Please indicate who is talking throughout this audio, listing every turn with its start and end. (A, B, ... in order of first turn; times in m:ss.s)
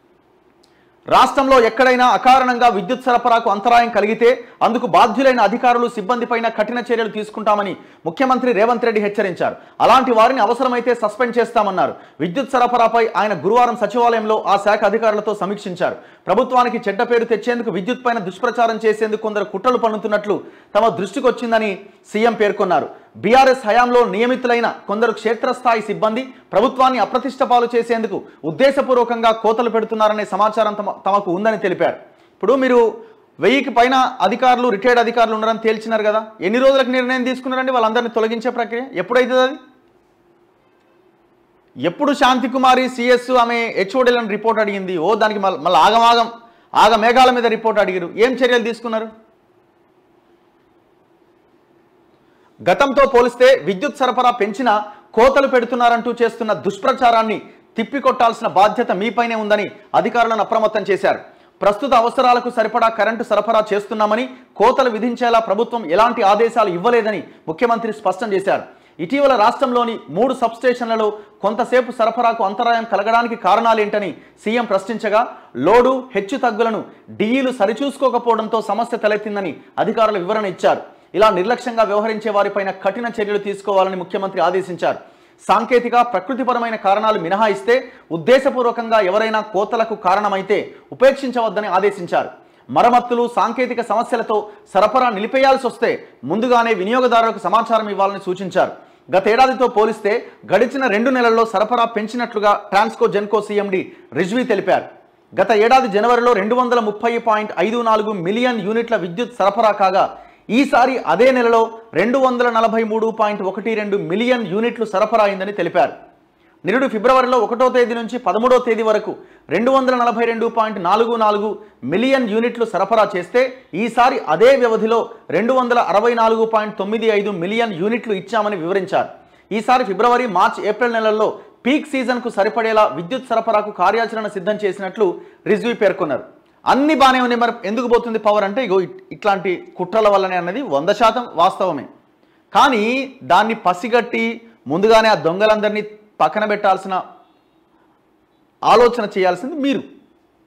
0:01.1-0:32.8 A
0:33.4-0:39.6 A
0:41.8-0:49.1 A
0:52.7-1:55.9 A
1:56.6-2:21.9 A
2:22.5-2:27.0 A
2:28.7-2:29.8 A